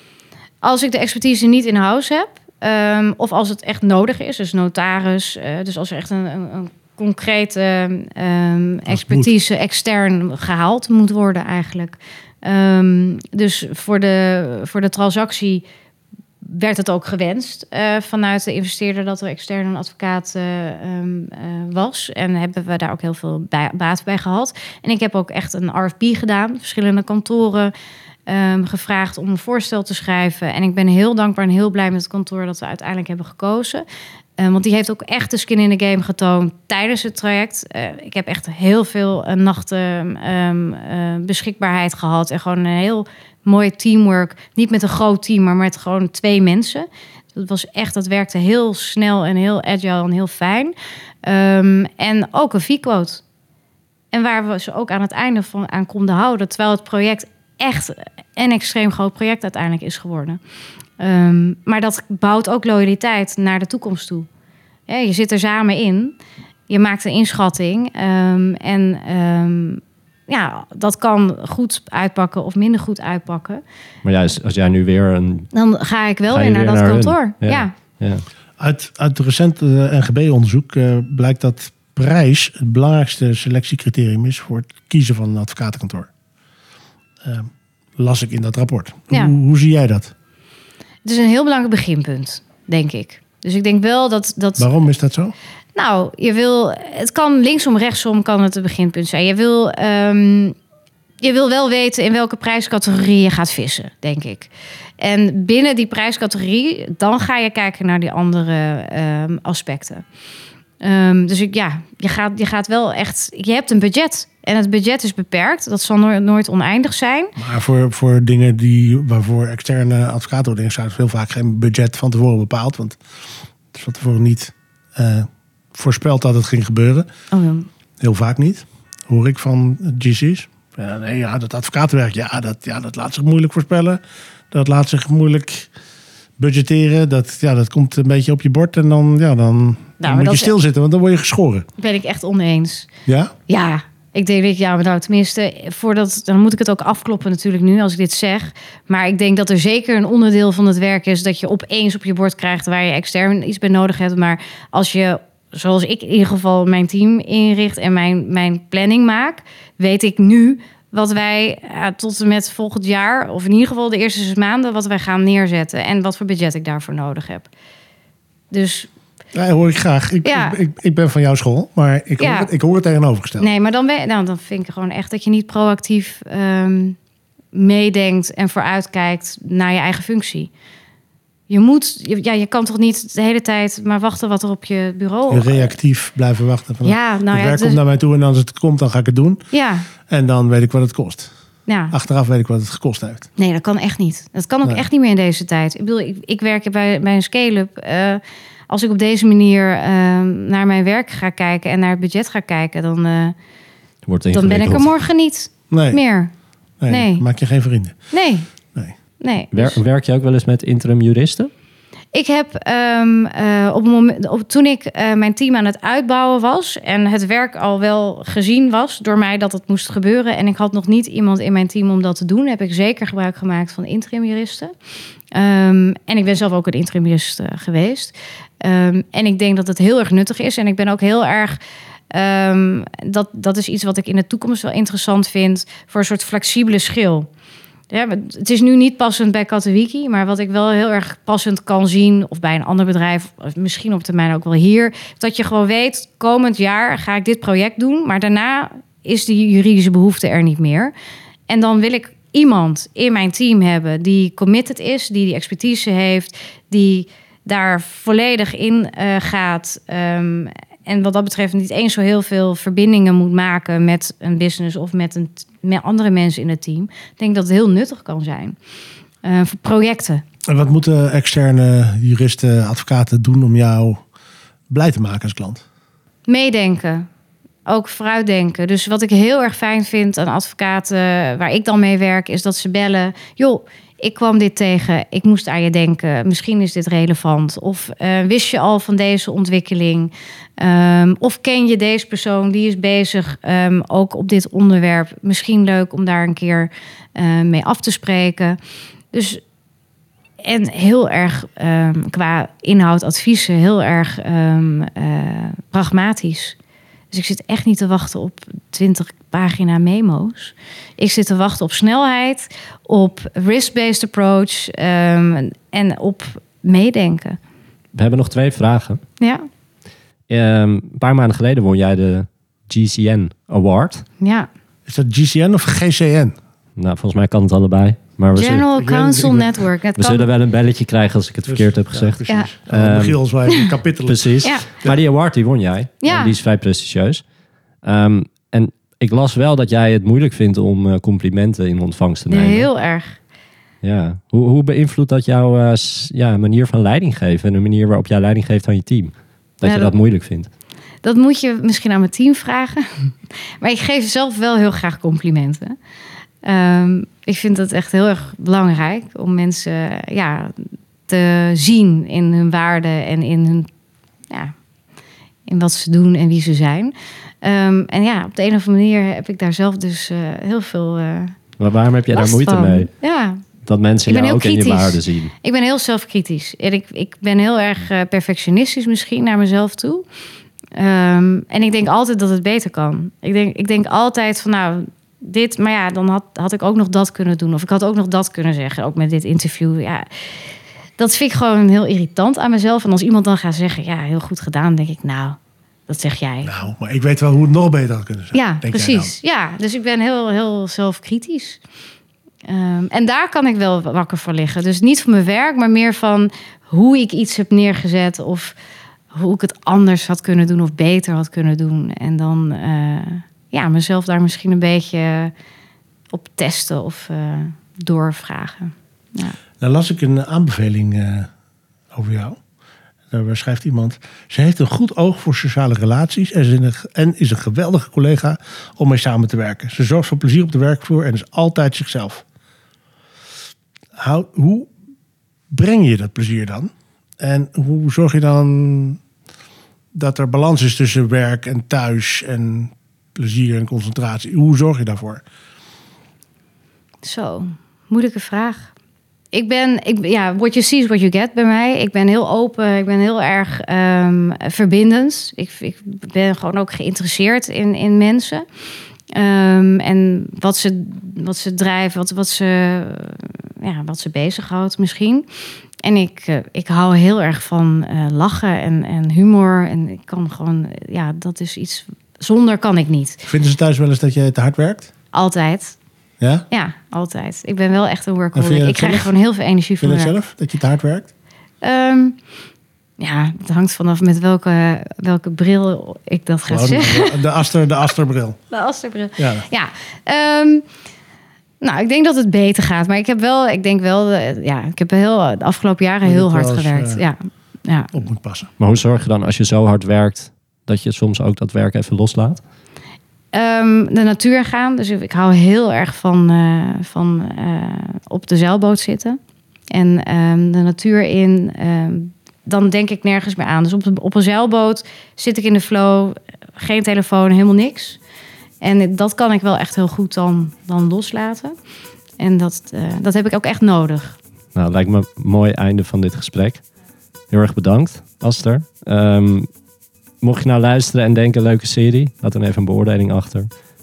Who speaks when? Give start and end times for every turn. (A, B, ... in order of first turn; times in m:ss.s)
0:00.6-0:15.6 A
0:08.9-0:09.3 B
0:16.4-0:27.7 A
0:28.3-0:33.8 A
0:34.4-0:53.2 A
0:54.1-1:00.4 A
1:01.0-1:04.3 A
1:04.9-1:06.2 A
1:06.7-1:13.6 A
1:14.0-1:15.5 C
1:15.5-1:17.7 A
1:16.3-1:18.2 C
1:18.6-1:26.1 B
1:27.2-1:30.1 B
1:31.0-1:34.7 A
1:34.6-1:35.3 B
1:35.8-1:40.6 A
1:41.2-1:50.0 A
1:50.8-1:57.4 A
1:57.4-2:03.0 B
2:03.7-2:07.1 B
2:07.3-2:07.7 A
2:08.0-2:14.0 B
2:14.5-2:15.7 B
2:16.4-2:21.6 B
2:20.0-2:20.5 A
2:21.8-2:22.9 A
2:23.1-2:23.3 B
2:23.5-2:47.5 A
2:48.5-2:48.9 A
2:49.3-2:53.5 B
2:50.2-2:50.6 A
2:52.2-2:52.5 A
2:53.4-2:57.0 A
2:57.5-3:00.5 A
3:01.5-3:05.8 A
3:05.3-3:09.4 B
3:06.8-3:07.8 A
3:09.5-3:09.9 A
3:10.1-3:11.3 B
3:11.7-3:11.9 A
3:11.9-3:13.3 B
3:13.4-3:23.3 A
3:24.0-3:24.9 C
3:24.3-3:26.3 A
3:25.7-3:26.0 B
3:26.8-3:27.9 B
3:26.9-3:27.2 A
3:28.1-3:28.5 A
3:29.2-3:29.8 A
3:29.5-3:31.5 C
3:32.1-3:44.7 A
3:45.3-3:51.6 A
3:52.1-3:57.3 A
3:57.9-4:10.9 A
4:11.5-4:28.6 A
4:29.2-4:30.2 A
4:30.5-4:34.0 B
4:34.7-4:35.6 B
4:36.3-4:37.1 A
4:37.6-4:58.6 A
4:59.1-4:59.4 A
5:00.4-5:06.6 A
5:07.1-5:17.4 A
5:17.9-5:19.0 C
5:19.2-5:19.4 A
5:20.3-5:24.0 C
5:24.2-5:24.5 A
5:24.8-5:26.3 B
5:26.8-5:28.6 C
5:28.3-5:30.2 A
5:28.7-5:29.6 B
5:30.0-5:33.2 C
5:31.4-5:35.0 B
5:34.0-5:37.2 C
5:36.0-5:36.3 A
5:37.8-5:42.7 C
5:42.3-5:43.2 A
5:43.8-5:50.5 C
5:49.6-5:49.9 A
5:51.0-5:55.8 A
5:56.4-6:03.7 A
6:05.5-6:11.4 A
6:11.6-6:12.9 C
6:12.1-6:13.4 A
6:13.6-6:15.3 C
6:14.0-6:20.0 A
6:20.8-6:35.4 A
6:35.9-6:36.5 A
6:36.4-6:39.1 B
6:38.3-6:41.6 A
6:42.4-6:48.6 A
6:49.1-6:55.3 A
6:56.1-6:59.4 A
6:59.6-7:01.3 B
7:01.9-7:02.4 B
7:03.1-7:12.2 B
7:14.0-7:14.7 B
7:15.5-7:19.0 B
7:19.9-7:25.2 B
7:27.0-7:28.7 A
7:29.3-7:38.4 A
7:39.1-7:45.2 A
7:45.8-7:53.2 A
7:53.2-7:54.9 B
7:55.1-7:55.8 A
7:56.2-7:56.5 B
7:56.5-8:00.1 A
7:58.3-7:59.1 B
7:59.8-8:01.1 B
8:01.6-8:02.2 A
8:03.0-8:07.2 A
8:06.5-8:08.4 B
8:08.5-8:10.6 A
8:09.2-8:09.5 B
8:11.6-8:17.9 A
8:16.0-8:17.0 B
8:17.9-8:18.5 B
8:18.6-8:22.4 C
8:23.3-8:29.2 A
8:29.7-8:38.0 A
8:38.6-8:41.5 A
8:42.2-8:44.2 A
8:44.5-8:46.6 C
8:47.3-8:49.5 C
8:50.2-8:53.5 C